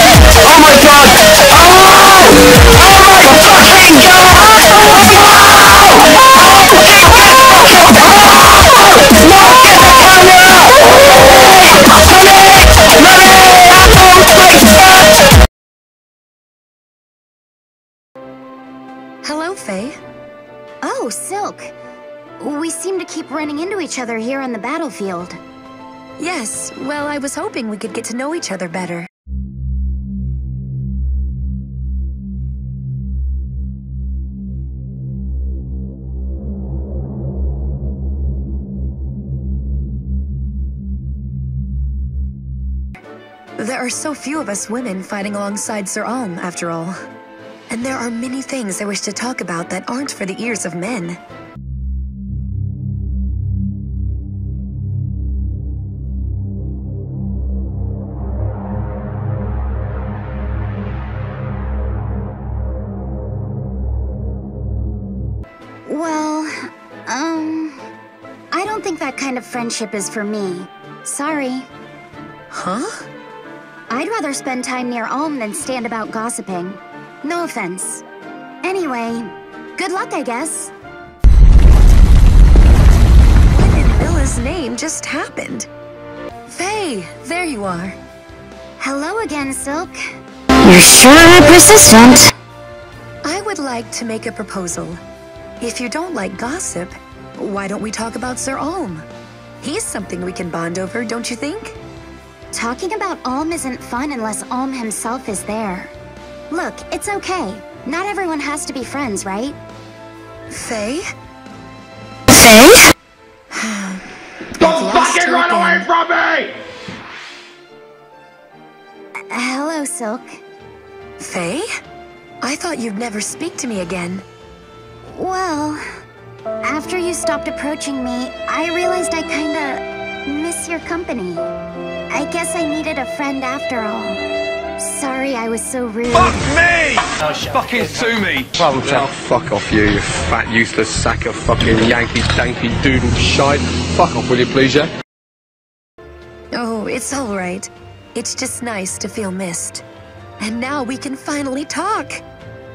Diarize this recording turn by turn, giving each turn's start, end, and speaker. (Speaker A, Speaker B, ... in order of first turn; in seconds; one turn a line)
Speaker A: 0.6-1.0
Speaker B: 0.6-2.3
Speaker B: 2.9-4.9
Speaker B: 6.6-7.9
Speaker B: 9.2-10.6
Speaker B: 13.1-14.7
Speaker C: 19.2-20.0
Speaker D: 20.8-21.7
Speaker D: 22.4-25.4
Speaker C: 26.2-29.1
Speaker C: 43.6-47.0
Speaker C: 47.7-51.2
Speaker D: 65.8-67.9
Speaker D: 68.5-71.7
Speaker C: 72.5-73.0
Speaker D: 73.9-78.0
Speaker D: 78.6-80.7
Speaker C: 83.5-85.7
Speaker C: 86.5-88.0
Speaker D: 88.8-90.0
Speaker D: 90.6-92.3
Speaker C: 93.2-95.0
Speaker C: 95.6-99.1
Speaker C: 99.6-101.8
Speaker D: 102.5-105.9
Speaker D: 106.5-109.6
Speaker C: 110.5-111.1
Speaker D: 112.4-112.7
Speaker C: 113.5-115.9
Speaker B: 116.0-116.5
Speaker D: 119.3-120.4
Speaker C: 121.2-121.7
Speaker C: 122.4-124.2
Speaker D: 125.1-125.8
Speaker D: 126.6-131.5
Speaker D: 132.1-134.2
Speaker D: 134.8-136.7
Speaker A: 137.5-144.9
Speaker B: 137.5-138.5
Speaker C: 146.5-149.8
Speaker C: 150.4-152.2